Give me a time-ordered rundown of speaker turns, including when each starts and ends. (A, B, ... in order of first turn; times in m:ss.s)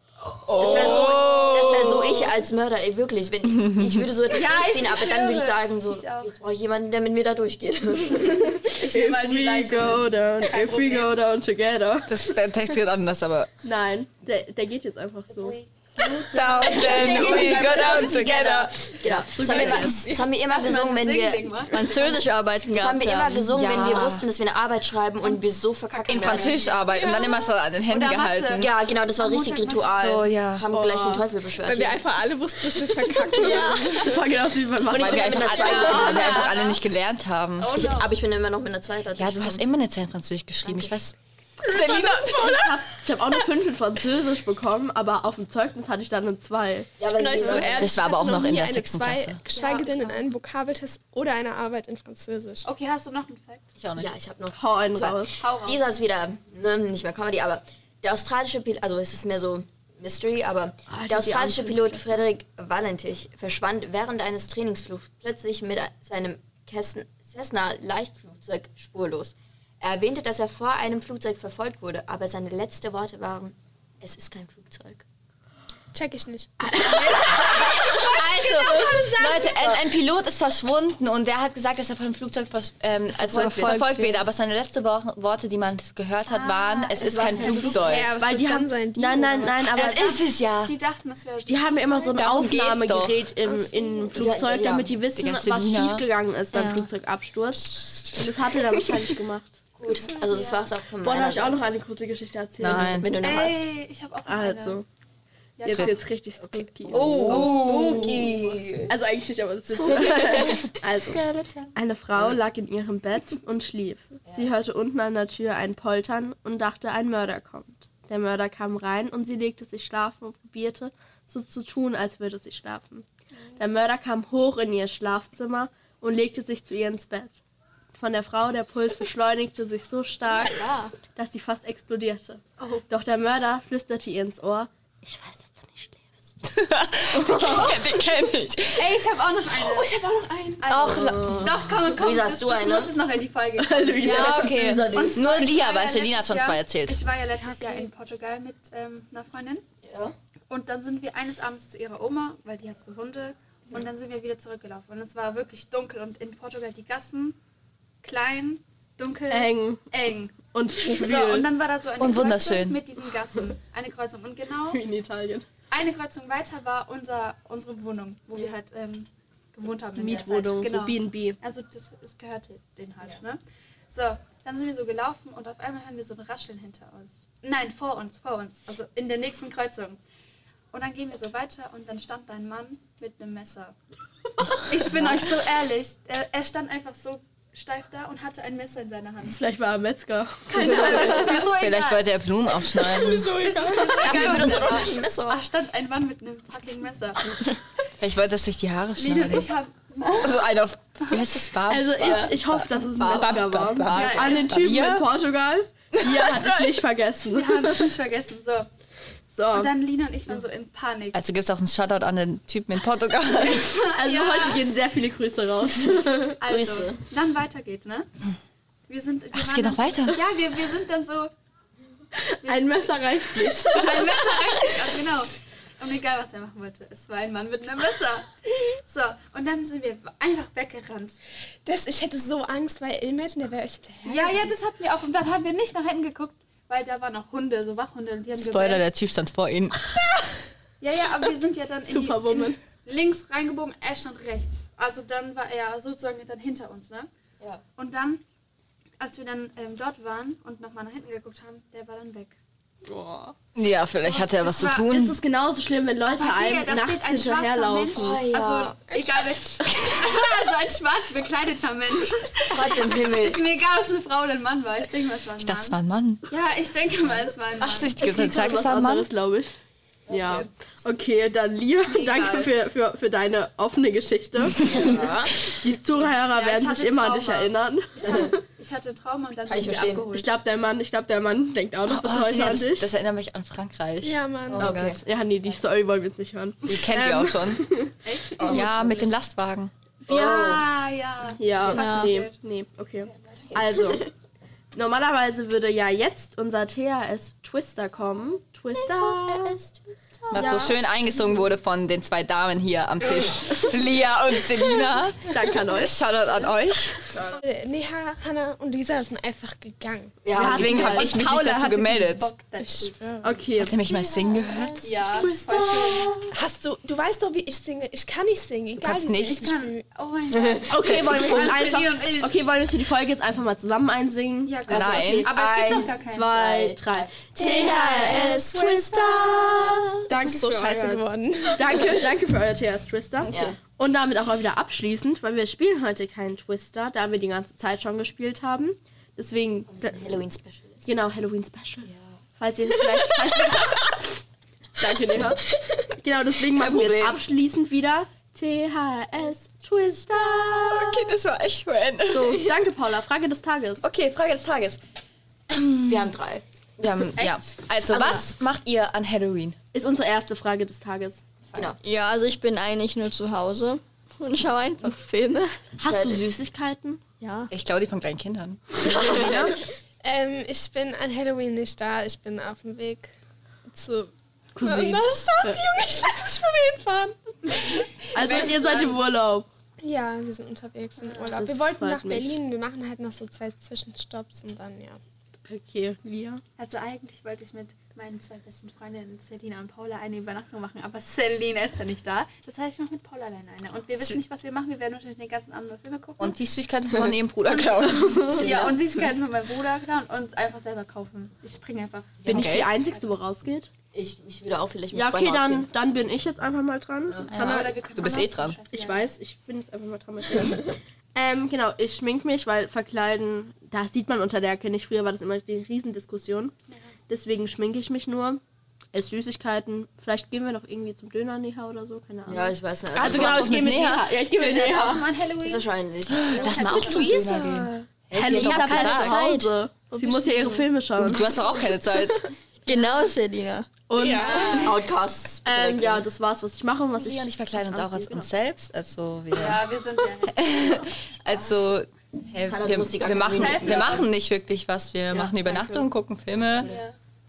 0:00.4-0:02.3 A
0:00.5-0:08.6 B
0:03.5-0:04.1 A
0:04.3-0:06.3 C
0:08.8-0:11.2 C
0:08.8-0:12.3 D
0:12.1-0:13.5 A
0:13.6-0:15.6 D
0:15.3-0:18.7 C
0:16.3-0:18.8 A
0:16.7-0:21.7 B
0:19.0-0:20.0 D
0:19.4-0:19.8 A
0:19.5-0:20.2 E
0:20.4-0:22.0 C
0:21.7-0:23.4 F
0:21.8-0:24.3 A
0:22.6-0:26.6 B
0:26.1-0:27.2 C
0:26.1-0:28.7 A
0:26.9-0:27.5 E
0:27.9-0:30.1 C
0:28.6-0:32.0 B
0:29.9-0:30.6 A
0:31.0-0:34.2 E
0:33.4-0:34.0 B
0:34.0-0:36.4 D
0:34.9-0:36.6 B
0:34.9-0:37.8 A
0:35.4-0:36.8 C
0:37.6-0:38.1 C
0:37.7-0:39.6 B
0:39.2-0:43.4 A
0:42.4-0:46.9 D
0:47.0-0:48.0 B
0:47.1-0:52.6 E
0:47.4-0:49.4 A
0:49.5-0:50.2 C
0:52.6-0:53.7 C
0:53.8-0:54.1 A
0:54.0-1:15.0 B
0:54.6-0:55.4 D
0:55.4-0:55.8 C
1:00.9-1:02.1 D
1:15.9-1:16.6 E
1:16.7-1:17.3 D
1:16.7-1:28.1 A
1:16.8-1:19.8 C
1:23.1-1:24.2 B
1:26.2-1:28.1 C
1:27.0-1:30.2 D
1:27.8-1:29.8 E
1:29.8-1:30.7 A
1:29.8-1:32.5 C
1:31.4-1:39.6 D
1:32.1-1:33.3 A
1:33.4-1:34.3 E
1:34.2-1:35.0 B
1:35.1-1:36.1 A
1:36.5-1:36.9 F
1:39.8-1:41.8 B
1:39.9-1:40.7 C
1:41.0-1:43.1 D
1:42.6-1:43.1 A
1:42.6-1:43.7 B
1:43.2-1:44.8 C
1:44.2-1:44.8 D
1:45.6-1:46.0 C
1:45.6-1:48.3 D
1:45.7-1:47.9 A
1:46.8-1:49.0 B
1:47.6-1:48.1 C
1:48.9-1:51.2 D
1:49.8-1:51.7 A
1:51.8-2:07.4 D
1:54.2-1:54.5 B
2:08.0-2:16.2 D
2:10.4-2:10.9 C
2:12.6-2:12.9 C
2:16.4-2:19.0 A
2:17.2-2:17.8 D
2:18.8-2:20.0 C
2:19.6-2:20.6 E
2:20.6-2:29.6 C
2:20.7-2:21.5 A
2:20.9-2:21.6 D
2:21.8-2:23.0 B
2:23.6-2:24.7 D
2:24.0-2:27.0 A
2:24.1-2:25.4 B
2:27.4-2:27.9 E
2:29.8-2:30.2 B
2:30.5-2:37.4 C
2:38.0-2:44.8 C
2:39.3-2:39.9 D
2:40.4-2:41.5 D
2:42.0-2:42.8 A
2:44.7-2:45.5 D
2:45.7-3:00.0 C
2:50.0-2:51.4 D
3:00.7-3:03.8 C
3:04.6-3:09.4 C
3:04.9-3:05.4 A
3:09.4-3:11.3 D
3:10.5-3:12.1 C
3:11.4-3:13.3 A
3:12.8-3:17.5 C
3:12.8-3:14.8 E
3:13.9-3:15.4 B
3:18.0-3:19.5 A
3:19.0-3:20.5 C
3:20.2-3:25.1 A
3:21.7-3:27.9 D
3:22.0-3:24.6 B
3:23.9-3:24.6 C
3:25.9-3:26.8 A
3:27.2-3:28.7 C
3:29.3-3:29.7 D
3:29.5-3:31.2 C
3:31.1-3:33.9 A
3:33.4-3:34.7 C
3:33.9-3:36.4 D
3:36.4-3:38.1 C
3:36.4-3:37.0 B
3:38.9-3:41.3 C
3:39.3-3:40.2 A
3:42.2-3:44.3 D
3:42.4-3:42.9 C
3:43.7-3:51.2 C
3:51.6-3:54.5 E
3:54.0-3:58.9 C
3:58.4-3:59.9 A
4:00.8-4:07.1 C
4:01.8-4:02.6 D
4:07.8-4:08.2 C
4:09.0-4:12.4 C
4:12.8-4:13.4 D
4:13.6-4:15.2 A
4:14.0-4:14.9 C
4:14.9-4:18.3 D
4:16.1-4:28.1 C
4:17.9-4:18.8 B
4:18.9-4:19.2 E
4:19.7-4:20.1 A
4:22.5-4:23.4 B
4:25.4-4:26.2 A
4:27.6-4:29.1 A
4:28.0-4:29.6 D
4:30.1-4:30.5 B
4:30.1-4:38.4 D
4:31.9-4:32.5 C
4:34.6-4:35.4 B
4:36.3-4:40.3 C
4:38.0-4:38.3 B
4:39.5-4:40.1 B
4:40.1-4:42.9 D
4:41.8-4:45.0 A
4:44.0-4:44.7 E
4:44.6-4:45.0 B
4:45.0-4:48.7 D
4:46.7-4:47.7 A
4:48.0-4:48.9 C
4:48.4-4:49.7 A
4:50.1-4:52.4 C
4:50.1-4:50.6 B
4:50.1-4:50.6 D
4:51.4-4:54.1 D
4:51.7-4:52.2 F
4:53.1-4:53.7 C
4:54.7-4:59.6 D
4:59.2-5:00.7 B
5:00.3-5:00.8 D
5:00.3-5:07.1 A
5:05.3-5:06.0 D
5:07.3-5:10.2 E
5:10.2-5:11.2 B
5:10.4-5:12.3 A
5:10.4-5:11.2 D
5:10.6-5:13.2 C
5:12.6-5:13.3 E
5:13.2-5:13.8 D
5:13.6-5:15.0 A
5:14.0-5:16.2 C
5:15.1-5:16.2 B
5:16.3-5:19.8 E
5:18.8-5:19.5 A
5:19.3-5:22.4 C
5:20.6-5:31.0 D
5:24.4-5:26.3 C
5:24.7-5:25.3 A
5:25.3-5:27.4 B
5:27.4-5:29.6 C
5:27.4-5:29.7 F
5:27.9-5:28.3 E
5:30.1-5:32.1 E
5:31.6-5:40.2 D
5:33.3-5:33.6 B
5:39.7-5:40.9 B
5:40.9-5:44.1 D
5:41.8-5:42.2 B
5:43.2-5:43.7 A
5:44.8-5:51.0 D
5:46.5-5:47.2 B
5:50.5-5:52.6 A
5:52.1-5:53.8 D
5:53.8-5:54.8 A
5:55.5-5:56.2 A
5:55.9-5:56.4 B
5:56.8-5:59.6 A
5:57.1-5:58.2 C
5:57.9-5:58.2 B
5:59.7-6:01.2 D
6:01.5-6:01.8 B
6:01.8-6:05.6 F
6:05.8-6:07.0 D
6:05.8-6:06.2 B
6:07.2-6:07.5 F
6:07.5-6:09.4 A
6:08.8-6:09.5 B
6:09.0-6:09.6 D
6:10.0-6:13.1 E
6:13.7-6:18.4 E
6:14.6-6:15.6 D
6:18.1-6:19.0 C
6:18.2-6:19.5 D
6:19.8-6:25.0 E
6:21.0-6:21.3 C
6:21.4-6:22.4 D
6:25.5-6:26.4 D
6:26.6-6:36.4 C
6:36.2-6:38.7 A
6:37.5-6:43.1 C
6:38.3-6:38.8 B
6:42.2-6:43.7 D
6:42.2-6:42.7 A
6:43.9-6:45.7 B
6:44.9-6:47.8 D
6:47.3-6:49.1 C
6:47.3-6:48.6 A
6:48.7-6:56.5 D
6:56.7-6:56.9 C
6:57.1-6:58.4 D
6:58.9-7:05.2 D
7:02.3-7:03.7 B
7:02.9-7:04.1 A
7:04.3-7:05.7 C
7:05.4-7:06.9 B
7:06.2-7:07.3 C
7:06.3-7:09.2 A
7:06.8-7:07.9 E
7:08.1-7:11.4 D
7:08.5-7:09.5 F
7:10.0-7:10.6 C
7:11.0-7:12.3 A
7:12.7-7:13.7 F
7:13.9-7:14.8 D
7:14.0-7:14.6 E
7:14.2-7:14.7 C
7:14.5-7:16.1 B
7:15.4-7:18.3 D
7:17.0-7:19.6 A
7:19.3-7:20.9 C
7:20.2-7:26.7 A
7:22.4-7:24.1 B
7:23.2-7:24.0 C
7:25.2-7:25.5 C
7:26.6-7:27.0 C